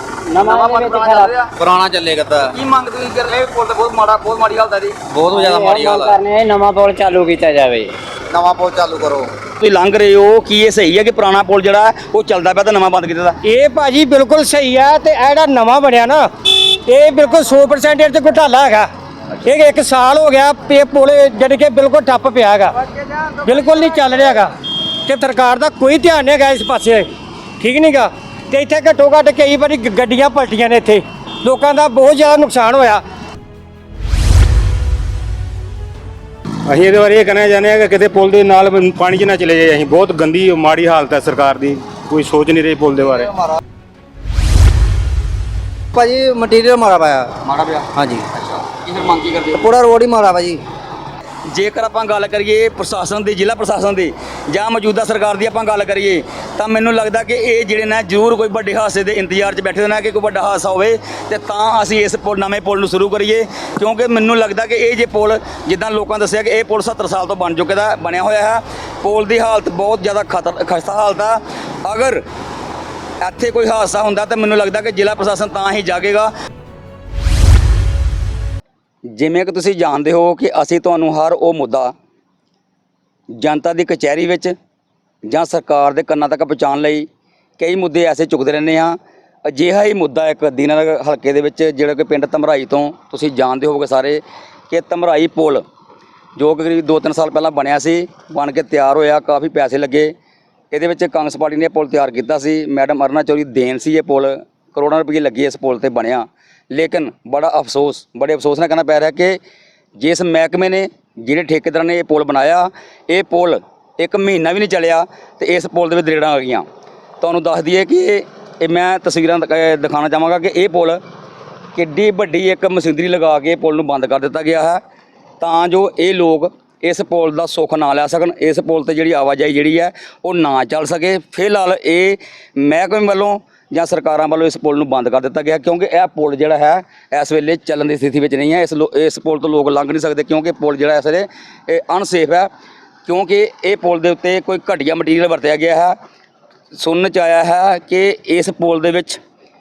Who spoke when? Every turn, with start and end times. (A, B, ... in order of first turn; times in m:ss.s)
0:00.3-0:01.3 A
0:00.4-0:01.4 B
0:01.6-0:02.5 C
0:02.5-0:04.9 B
0:05.1-0:06.2 C
0:05.3-0:07.9 A
0:08.3-0:09.3 C
0:09.6-0:13.4 B
0:13.4-0:18.9 D
0:19.4-0:24.5 D
0:25.0-0:27.0 D
0:27.6-0:33.0 D
0:36.7-0:43.3 E
0:45.9-0:47.3 F
0:47.4-0:49.8 B
0:47.9-0:48.2 F
0:49.6-0:50.6 F
0:51.5-1:12.2 B
1:13.2-1:16.3 B
1:19.1-1:21.9 B
1:23.3-1:24.5 B
1:25.2-1:27.0 B
1:27.6-1:29.0 B
1:29.5-1:35.6 B
1:36.4-1:40.1 B
1:40.7-1:49.4 B
1:50.0-1:56.6 B
1:57.2-2:01.0 B
2:01.7-2:04.8 B
2:05.4-2:22.5 B
2:23.0-2:25.9 B
2:26.7-2:29.2 B